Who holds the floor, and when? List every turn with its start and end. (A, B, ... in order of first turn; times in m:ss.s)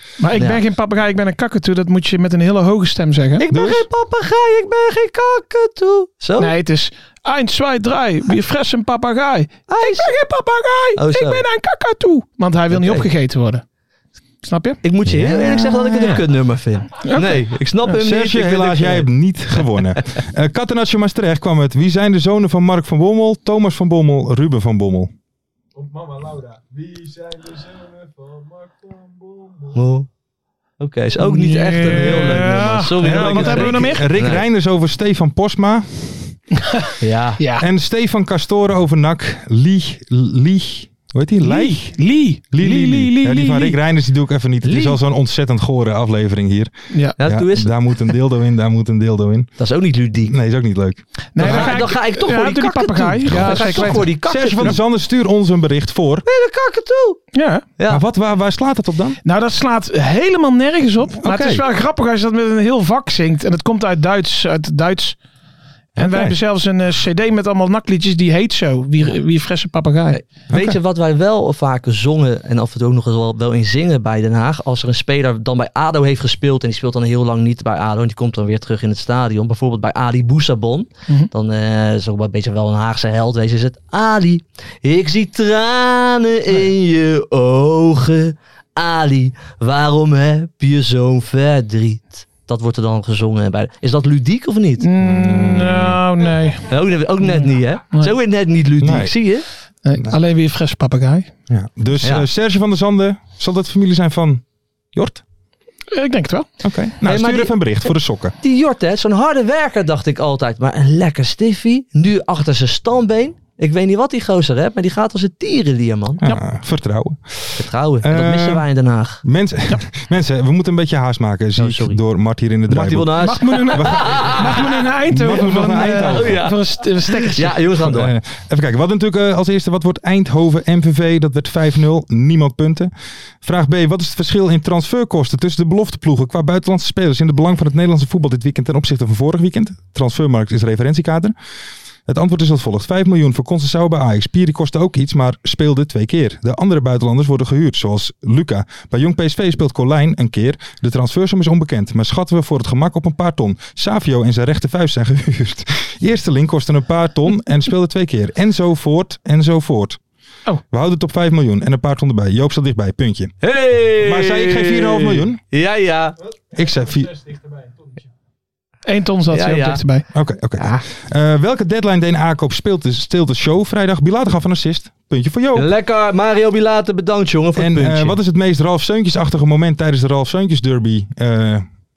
0:00.2-0:03.5 A
0:00.4-0:00.6 B
0:03.4-0:06.5 B
0:03.5-0:03.9 C
0:06.4-0:13.6 A
0:09.7-0:10.1 B
0:11.0-0:11.4 B
0:12.7-0:13.1 B
0:14.4-0:14.8 A
0:14.8-0:19.6 B
0:15.1-0:16.2 C
0:17.0-0:17.5 A
0:17.9-0:25.1 C
0:25.8-0:29.9 D
0:29.8-0:30.1 B
0:30.8-0:34.4 B
0:31.2-0:34.0 A
0:33.0-0:36.4 C
0:37.0-0:37.4 B
0:37.4-0:37.7 A
0:37.6-0:49.6 C
0:41.4-0:43.8 A
0:44.6-0:45.0 B
0:46.9-0:47.2 A
0:47.2-0:47.7 B
0:49.6-0:50.3 B
0:50.3-0:51.9 C
0:51.4-0:54.7 A
0:51.4-0:54.8 B
0:53.3-0:56.2 C
0:56.2-0:57.2 B
0:57.3-0:57.6 A
0:57.8-0:58.0 B
0:57.9-0:59.2 C
0:59.2-1:05.2 A
1:01.2-1:01.6 C
1:06.0-1:06.4 C
1:06.0-1:10.2 A
1:10.1-1:34.9 B
1:10.5-1:10.8 C
1:34.8-1:36.7 A
1:35.0-1:36.0 C
1:36.7-1:39.5 B
1:37.2-1:38.2 A
1:38.8-1:39.2 C
1:39.8-1:41.3 A
1:41.5-1:45.2 C
1:45.9-1:46.5 A
1:46.6-1:48.4 C
1:47.0-1:47.6 B
1:48.4-1:56.3 B
1:56.2-1:58.6 C
1:57.6-1:59.2 B
1:59.2-2:06.5 C
2:01.6-2:02.0 B
2:02.7-2:04.6 B
2:03.2-2:07.6 A
2:06.0-2:08.1 B
2:07.8-2:12.9 C
2:13.4-2:21.3 C
2:22.1-2:40.0 C
2:40.7-2:43.4 C
2:43.4-2:46.2 B
2:44.0-2:45.4 C
2:46.2-2:48.1 D
2:46.6-2:47.1 C
2:48.8-2:50.1 A
2:49.3-2:49.8 B
2:50.1-2:55.7 C
2:50.6-2:50.8 B
2:55.6-2:58.2 B
2:57.6-3:01.6 C